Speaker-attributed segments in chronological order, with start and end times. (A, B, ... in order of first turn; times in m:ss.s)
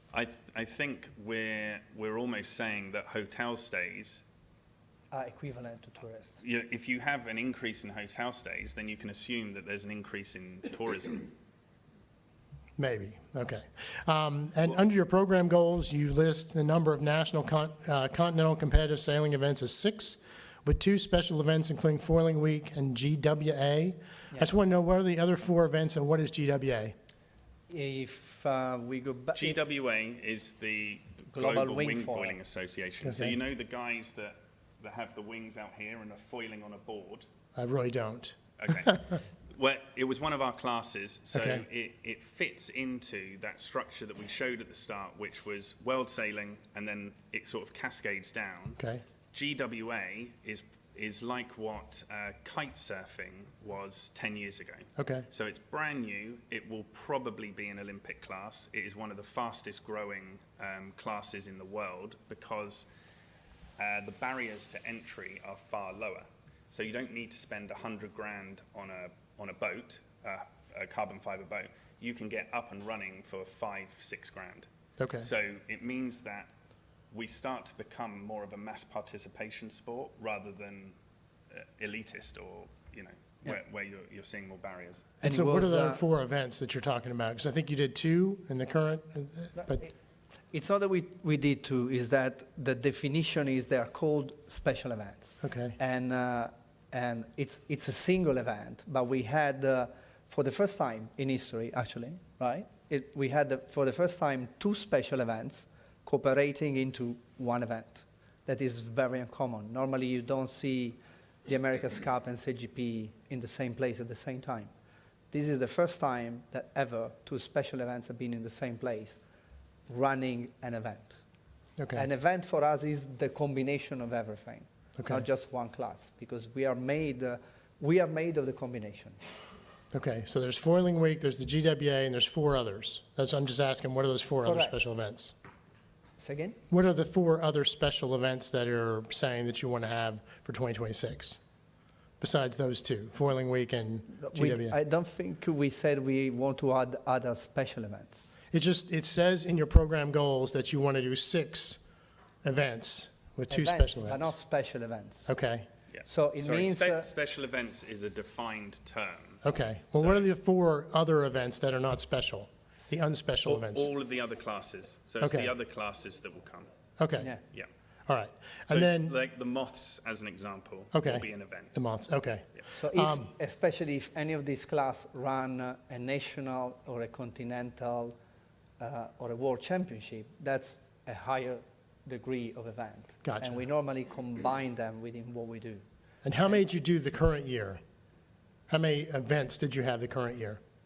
0:00.1-0:04.2 A
0:05.1-0:06.4 B
0:06.4-0:11.2 A
0:12.8-0:26.9 C
0:27.7-0:29.7 B
0:29.4-0:37.2 A
0:31.3-0:32.4 B
0:33.0-0:33.4 C
0:37.5-0:39.2 C
0:38.6-0:38.9 A
0:39.5-0:48.8 A
0:41.4-0:41.6 C
0:49.3-1:02.9 A
0:55.0-0:55.3 C
1:03.8-1:14.7 A
1:15.0-1:15.3 C
1:15.2-1:16.5 A
1:17.1-1:21.0 A
1:21.5-1:25.1 A
1:25.2-1:26.0 B
1:25.2-1:29.8 C
1:29.6-1:29.9 B
1:30.5-1:54.7 B
1:35.4-1:35.7 C
1:55.3-1:59.2 B
1:59.9-2:01.2 B
2:01.8-2:02.0 C
2:01.9-2:09.2 B
2:05.0-2:05.2 C
2:09.9-2:15.4 C
2:14.4-2:14.8 B
2:16.2-2:16.6 B
2:16.7-2:21.4 C
2:22.2-2:24.7 C
2:24.1-2:28.3 B
2:28.5-2:31.8 C
2:32.4-2:34.3 C
2:33.5-2:35.3 B
2:35.3-2:35.6 C
2:35.9-2:39.4 A
2:36.0-2:37.1 B
2:39.4-2:43.9 C
2:40.0-2:40.3 A
2:43.4-2:46.7 A
2:45.2-2:45.5 C
2:47.0-2:47.3 C
2:47.2-2:47.4 B
2:48.1-2:49.1 C
2:48.7-2:51.8 A
2:50.9-2:53.3 C
2:52.7-2:58.2 B
2:58.8-3:05.8 B
3:03.2-3:03.5 C
3:06.2-3:07.8 C
3:08.7-3:10.6 C